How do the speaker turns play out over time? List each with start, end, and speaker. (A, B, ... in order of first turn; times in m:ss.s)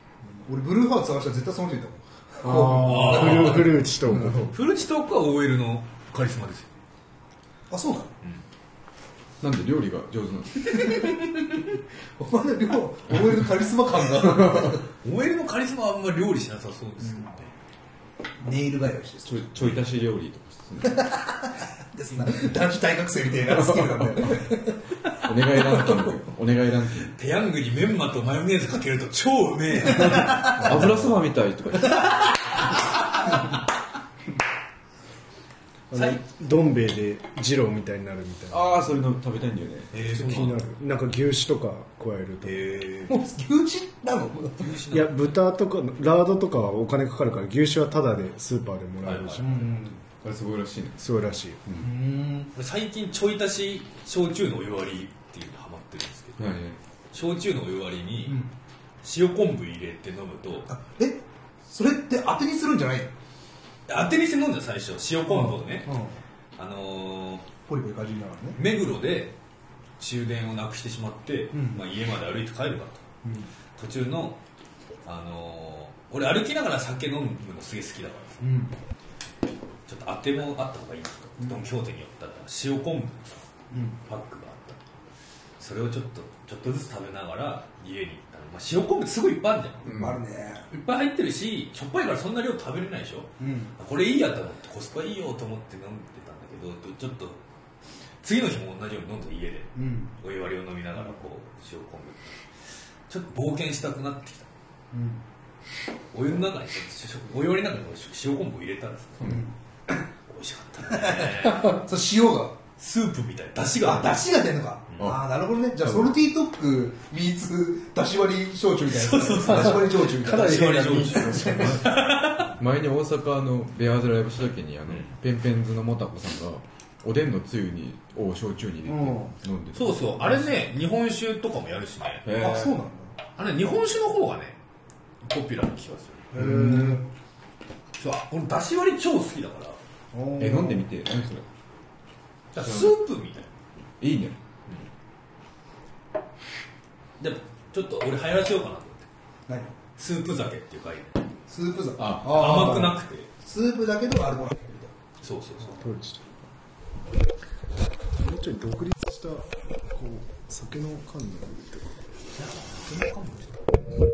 0:00.3-0:04.4 A
0:02.4-0:04.6 B
0:02.6-0:03.7 C
0:04.5-0:06.7 C
0:07.7-0:08.1 A
0:09.4-0:11.1 D
0:10.7-0:11.0 C
0:12.2-0:14.8 A
0:14.2-0:14.8 D
0:15.0-0:17.5 C
0:17.0-0:17.3 A
0:18.4-0:19.8 A
0:19.3-0:21.1 D
0:20.8-0:24.8 A
0:23.5-0:24.4 D
0:25.2-0:27.1 D
0:25.6-0:26.1 A
0:27.0-0:31.1 C
0:29.9-0:30.8 A
0:30.0-0:32.3 D
0:31.8-0:32.3 C
0:33.0-0:33.4 C
0:35.9-0:38.8 B
0:35.9-0:36.2 C
0:38.5-0:39.9 D
0:39.9-0:40.6 C
0:40.1-0:42.8 B
0:42.4-0:43.1 C
0:43.1-0:44.8 A
0:44.6-0:45.3 C
0:44.9-0:49.7 B
0:49.0-0:49.4 C
0:49.4-0:50.0 A
0:50.2-0:51.0 D
0:51.0-0:51.6 B
0:51.8-0:52.5 A
0:52.5-0:56.5 C
0:56.4-0:56.8 D
0:57.1-0:58.4 C
0:58.2-0:58.5 A
0:59.0-1:00.7 C
1:00.7-1:03.1 A
1:03.9-1:05.9 C
1:05.3-1:06.2 A
1:06.6-1:07.4 C
1:07.7-1:08.6 A
1:08.5-1:09.3 C
1:10.0-1:13.0 C
1:11.5-1:11.8 A
1:13.2-1:13.5 A
1:13.8-1:14.4 C
1:15.0-1:18.4 C
1:18.4-1:18.7 A
1:19.9-1:23.4 C
1:21.4-1:21.6 A
1:23.7-1:24.0 A
1:24.0-1:24.8 C
1:25.6-1:29.8 C
1:29.8-1:30.2 D
1:29.8-1:30.6 A
1:30.7-1:37.4 C
1:33.4-1:33.7 A
1:38.2-1:42.5 C
1:39.7-1:40.1 A
1:43.1-1:44.5 C
1:44.9-1:45.2 A
1:46.1-1:49.3 C
1:49.2-1:49.5 A
1:50.3-1:51.8 C
1:50.9-1:52.6 A
1:52.8-1:54.2 C
1:53.8-2:01.8 A
1:55.0-1:56.1 D
1:58.9-2:02.5 C
2:00.3-2:01.6 B
2:01.4-2:10.5 D
2:08.8-2:09.3 A
2:09.7-2:12.2 C
2:12.2-2:12.7 D
2:12.4-2:13.1 A
2:13.4-2:14.6 C
2:15.2-2:16.3 C
2:16.3-2:17.0 A
2:16.3-2:17.0 B
2:18.0-2:19.8 C
2:20.1-2:20.8 A
2:20.4-2:21.4 D
2:22.5-2:23.5 C
2:22.6-2:22.9 D
2:24.0-2:24.4 D
2:27.2-2:29.0 C
2:29.5-2:29.7 A
2:30.0-2:31.2 C
2:31.5-2:34.9 A
2:32.0-2:32.5 D
2:32.2-2:33.3 C
2:32.5-2:32.9 B
2:35.2-2:35.8 C
2:35.8-2:36.2 B
2:38.1-2:42.0 B
2:42.3-2:43.7 C